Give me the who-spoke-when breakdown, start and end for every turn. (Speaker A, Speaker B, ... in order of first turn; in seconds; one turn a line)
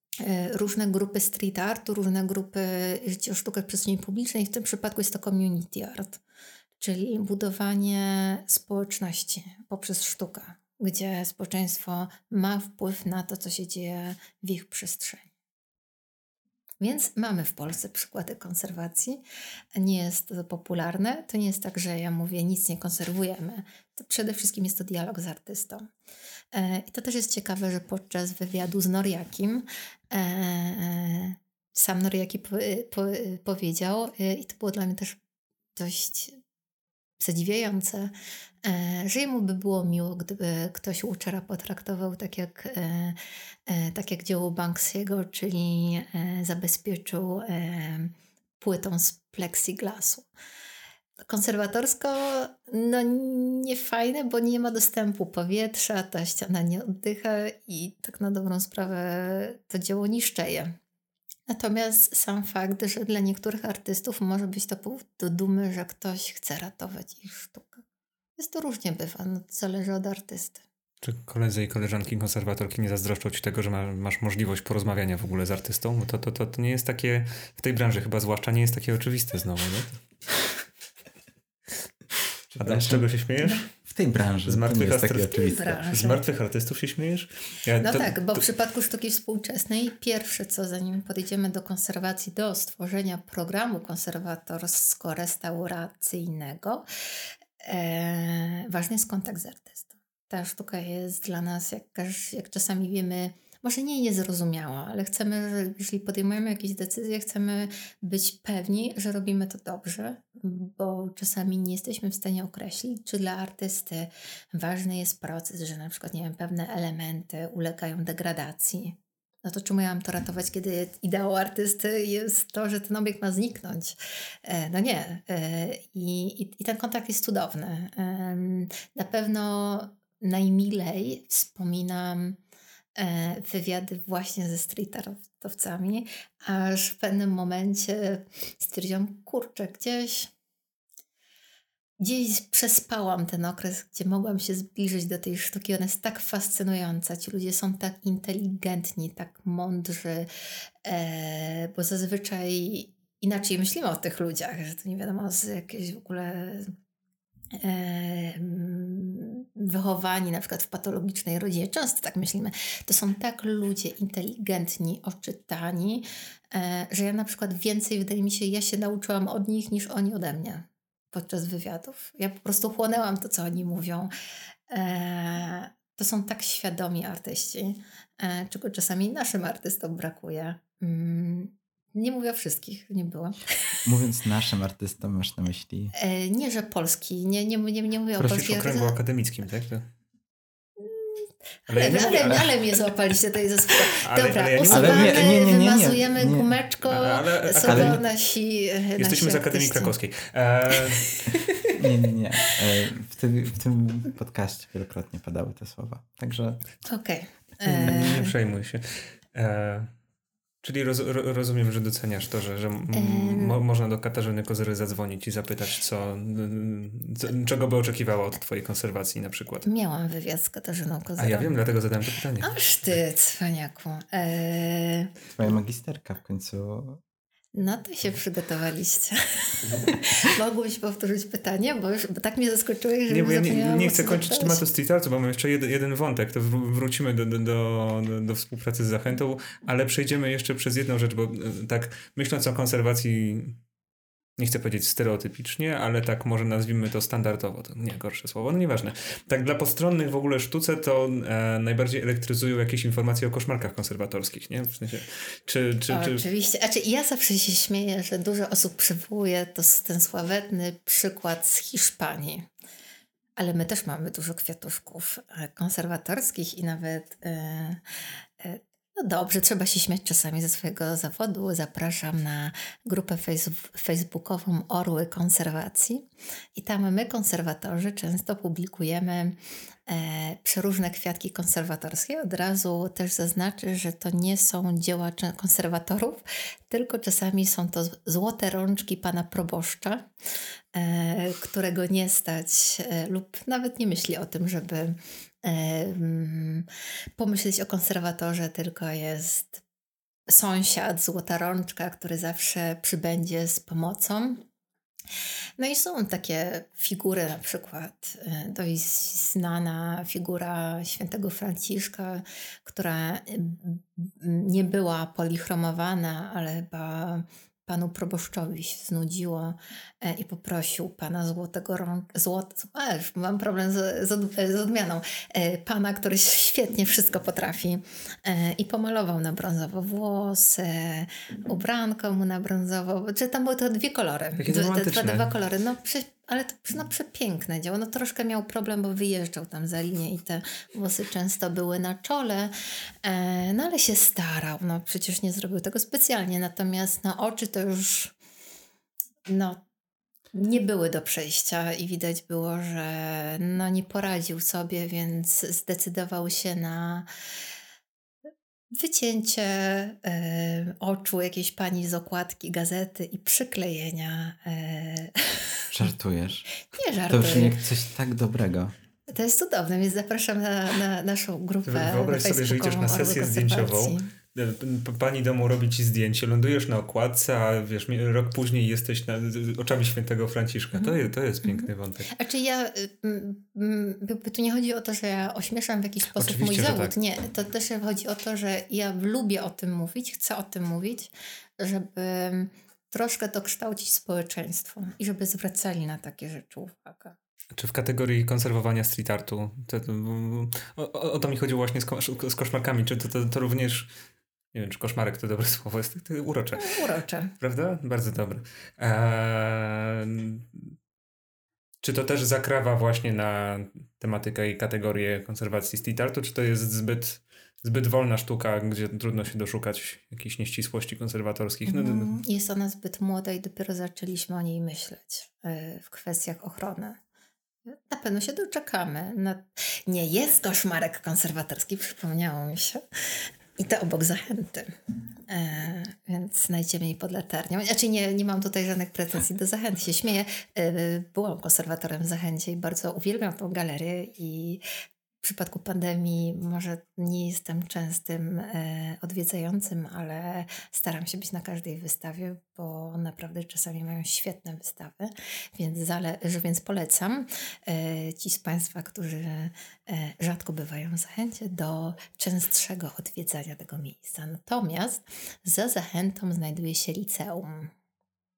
Speaker A: 0.2-6.2
Speaker A: 6.8-15.3
Speaker A: 16.8-19.2
Speaker A: 19.8-25.9
Speaker A: 26.5-35.2
Speaker A: 35.8-36.4
Speaker A: 37.2-38.1
Speaker A: 38.6-50.3
Speaker A: 51.2-60.8
Speaker A: 61.5-67.8
Speaker A: 68.4-70.6
Speaker B: 71.0-80.0
Speaker C: 82.5-85.8
Speaker B: 82.6-83.7
Speaker B: 84.5-88.4
Speaker A: 85.3-86.2
Speaker A: 87.8-96.8
Speaker A: 97.6-132.4
Speaker A: 133.0-140.3
Speaker A: 142.0-150.3
Speaker A: 150.8-156.7
Speaker A: 157.6-174.1
Speaker A: 174.7-183.8
Speaker C: 183.8-185.9
Speaker A: 185.9-188.9
Speaker B: 188.2-189.9
Speaker A: 190.8-199.9
Speaker B: 191.7-192.6
Speaker B: 193.9-195.3
Speaker C: 194.7-196.5
Speaker B: 196.8-198.0
Speaker C: 197.7-198.0
Speaker B: 199.0-201.2
Speaker A: 201.0-201.8
Speaker C: 201.7-206.6
Speaker A: 206.8-208.3
Speaker B: 207.7-209.9
Speaker B: 210.6-219.7
Speaker A: 212.9-213.6
Speaker A: 219.7-221.6
Speaker B: 221.2-222.6
Speaker A: 222.4-225.2
Speaker C: 225.3-227.0
Speaker A: 227.5-234.6
Speaker B: 233.1-243.6
Speaker B: 244.4-256.3
Speaker A: 255.9-262.5
Speaker A: 263.4-267.8
Speaker A: 268.4-279.4
Speaker A: 279.9-290.1
Speaker A: 290.7-299.6
Speaker A: 300.3-304.4
Speaker A: 305.6-348.1
Speaker B: 334.4-335.3
Speaker A: 349.3-349.6
Speaker A: 350.3-357.1
Speaker A: 358.7-365.7
Speaker C: 365.7-368.7
Speaker A: 366.6-367.6
Speaker A: 369.1-374.1
Speaker B: 371.7-382.1
Speaker A: 380.8-397.2
Speaker B: 386.2-386.9
Speaker B: 397.5-403.9
Speaker B: 404.5-406.8
Speaker A: 406.6-407.3
Speaker B: 407.4-410.7
Speaker B: 411.8-422.1
Speaker A: 421.7-427.0
Speaker A: 427.7-434.7
Speaker A: 435.3-444.6
Speaker A: 445.2-467.7